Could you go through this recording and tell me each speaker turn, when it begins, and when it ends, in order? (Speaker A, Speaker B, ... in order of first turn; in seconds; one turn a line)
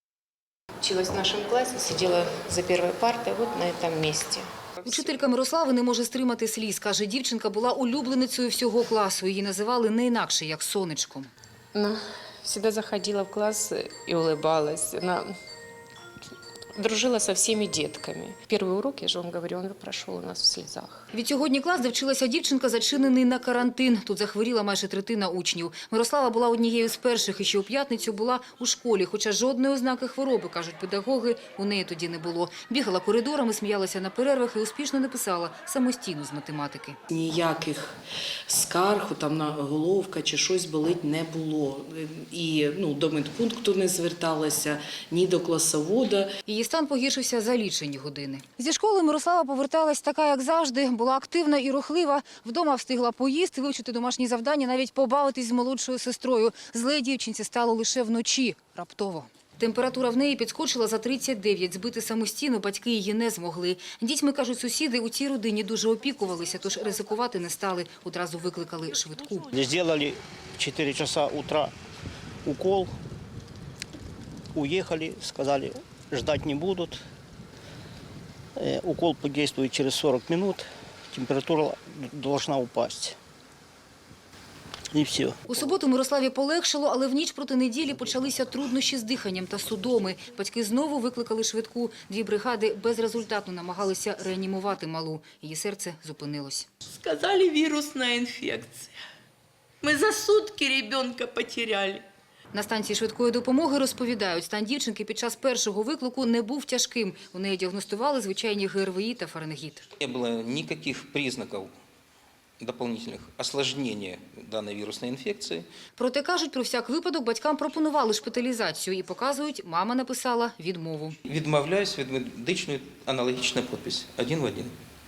Speaker A: 0.8-5.1
Speaker B: 4.8-11.3
Speaker A: 11.7-15.3
Speaker A: 16.7-21.0
Speaker B: 21.1-37.0
Speaker C: 37.1-38.0
Speaker C: 38.5-46.3
Speaker B: 46.5-69.5
Speaker D: 69.5-71.7
Speaker D: 72.5-72.9
Speaker D: 74.5-77.0
Speaker D: 78.6-83.2
Speaker D: 84.9-85.4
Speaker B: 85.5-96.7
Speaker E: 96.9-98.9
Speaker E: 99.8-102.1
Speaker B: 102.5-109.9
Speaker F: 110.0-111.7
Speaker F: 112.6-115.7
Speaker B: 116.0-121.2
Speaker F: 121.2-124.7